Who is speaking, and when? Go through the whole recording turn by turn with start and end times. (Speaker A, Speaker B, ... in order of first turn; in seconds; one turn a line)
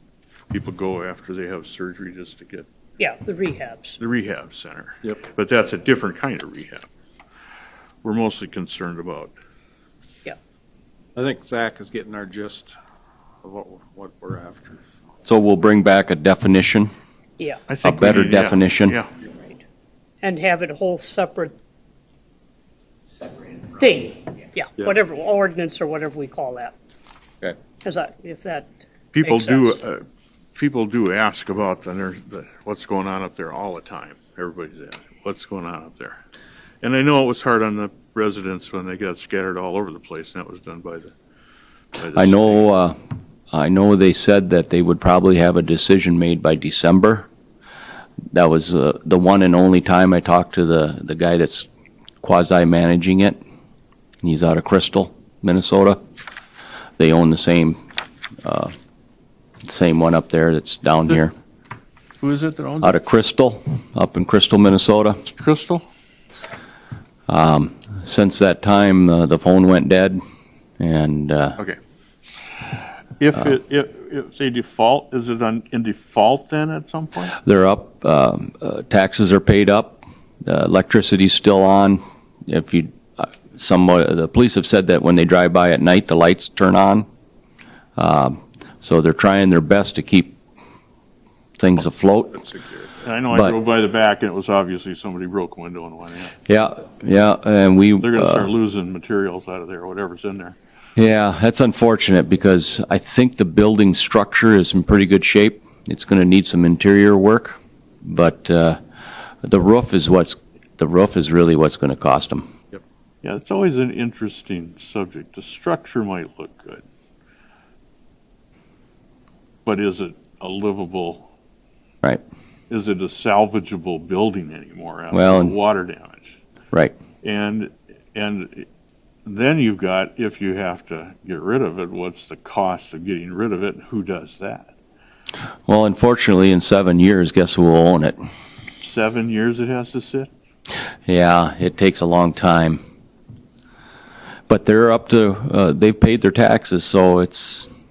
Speaker A: 0.5-2.7
Speaker B: 3.0-4.0
Speaker A: 4.0-6.8
Speaker A: 8.0-9.3
Speaker C: 11.2-12.8
Speaker C: 13.4-14.9
Speaker D: 15.2-16.9
Speaker A: 17.7-19.1
Speaker D: 17.8-19.0
Speaker B: 20.2-21.5
Speaker B: 23.8-26.7
Speaker B: 27.8-28.7
Speaker A: 29.1-30.0
Speaker B: 29.2-29.8
Speaker A: 30.6-36.2
Speaker A: 36.8-41.1
Speaker A: 42.0-42.7
Speaker D: 42.1-43.0
Speaker D: 43.5-47.3
Speaker D: 48.3-51.7
Speaker D: 52.2-53.4
Speaker D: 54.2-56.0
Speaker D: 57.0-57.8
Speaker D: 58.4-58.7
Speaker D: 59.7-61.3
Speaker A: 62.2-63.0
Speaker D: 62.8-65.2
Speaker A: 65.3-65.8
Speaker D: 67.3-70.2
Speaker D: 70.8-71.6
Speaker A: 72.7-77.3
Speaker D: 77.4-87.1
Speaker D: 88.0-90.4
Speaker D: 91.6-92.5
Speaker A: 93.0-96.3
Speaker D: 93.3-93.6
Speaker D: 96.5-98.5
Speaker A: 98.0-100.6
Speaker D: 101.0-108.8
Speaker D: 109.4-112.5
Speaker A: 113.2-116.8
Speaker A: 119.7-121.3
Speaker A: 122.7-126.3
Speaker D: 125.1-125.6
Speaker A: 127.2-128.7
Speaker A: 129.3-134.7
Speaker D: 135.7-138.2
Speaker A: 138.8-140.3
Speaker D: 141.1-142.8
Speaker D: 144.5-147.7